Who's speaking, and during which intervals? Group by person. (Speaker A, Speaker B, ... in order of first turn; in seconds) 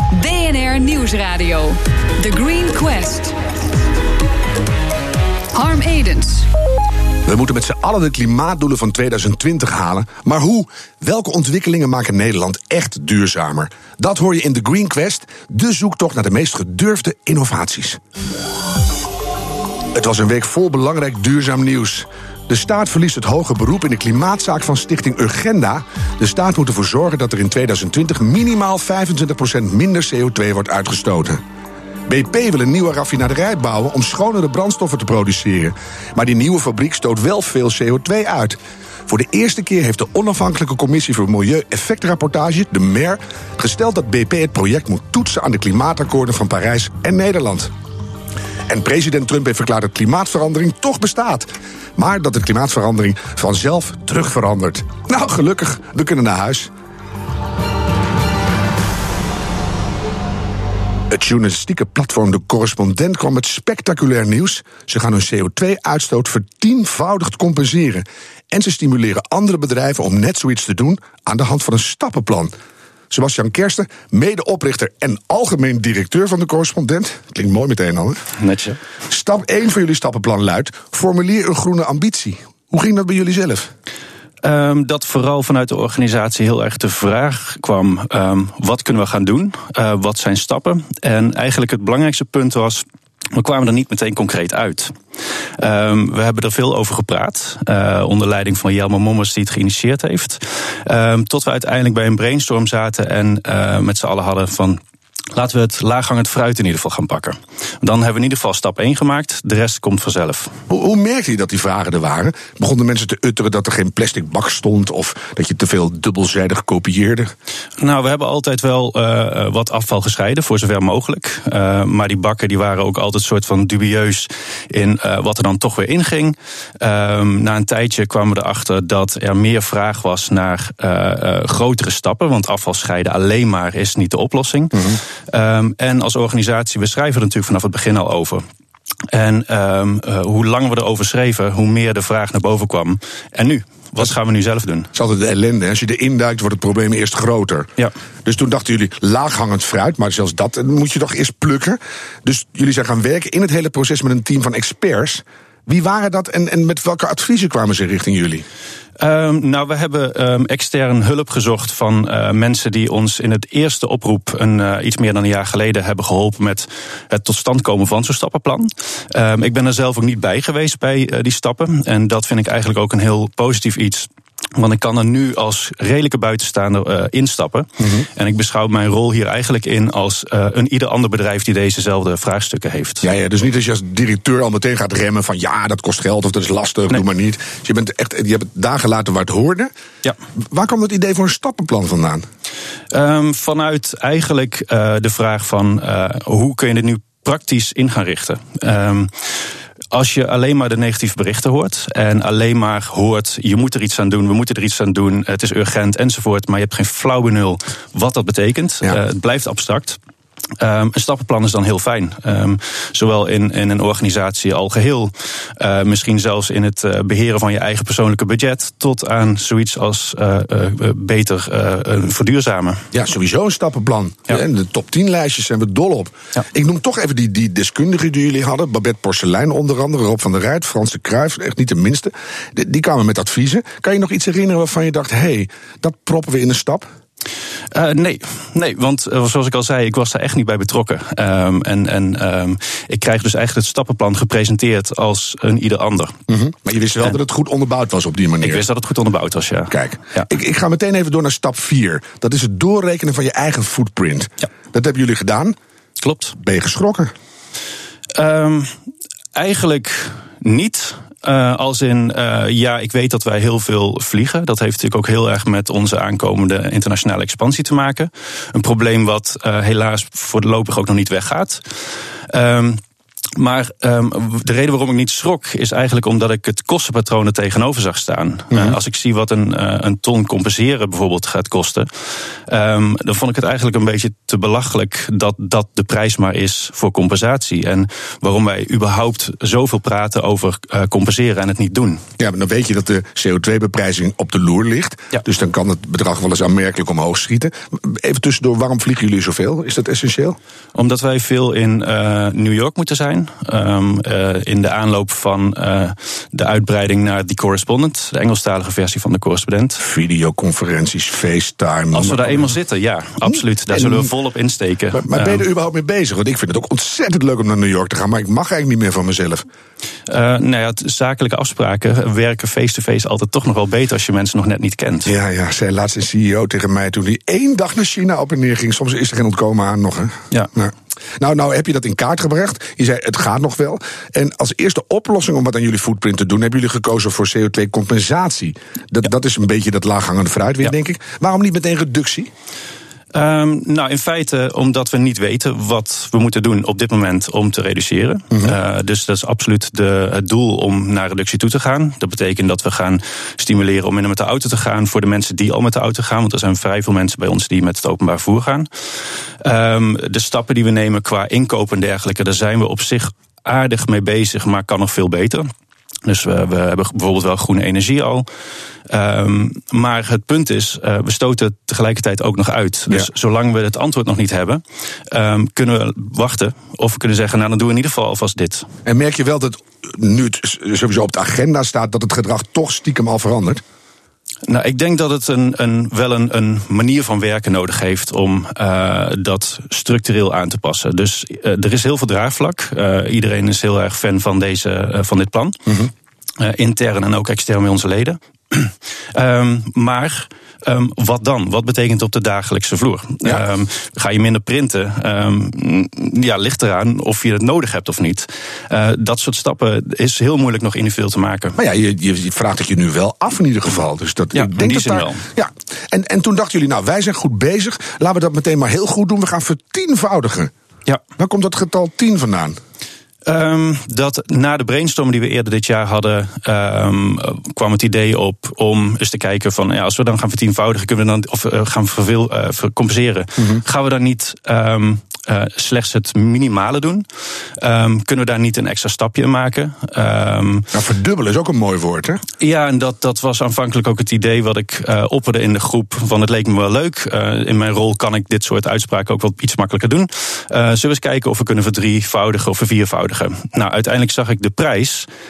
Speaker A: 0.1-3.4, 5.5-6.5
Speaker B: 7.3-18.0, 19.9-31.4, 32.1-47.7, 48.7-56.7, 61.1-72.5, 73.1-78.2, 79.1-83.7, 110.7-117.3, 134.7-135.0, 144.9-147.7, 148.2-158.4, 177.8-178.1, 183.0-189.7, 190.5-192.3, 222.9-236.9, 246.3-248.7, 249.7-255.6, 256.4-257.1, 278.5-278.8, 292.2-300.4, 309.8-312.5, 313.3-314.1, 314.9-319.5, 325.1-342.3, 378.9-383.6, 411.6-420.5, 421.2-422.6, 440.7-442.2
Speaker C: 78.4-78.8, 84.4-92.8, 93.3-95.0, 95.6-104.8, 105.3-110.5, 117.8-138.4, 139.1-144.9, 159.0-183.1, 192.9-199.3, 199.9-210.0, 210.6-222.8, 237.7-246.1, 248.4-250.3, 256.0-256.4, 258.2-258.7, 259.4-271.6, 272.3-272.8, 273.4-281.9, 282.5-292.0, 300.8-309.8, 311.9-315.4, 320.1-325.1, 343.1-358.7, 359.4-365.5, 366.1-368.3, 368.9-378.7, 384.4-395.6, 396.4-411.6, 414.3-415.2, 423.3-437.1, 437.6-440.7, 442.4-455.1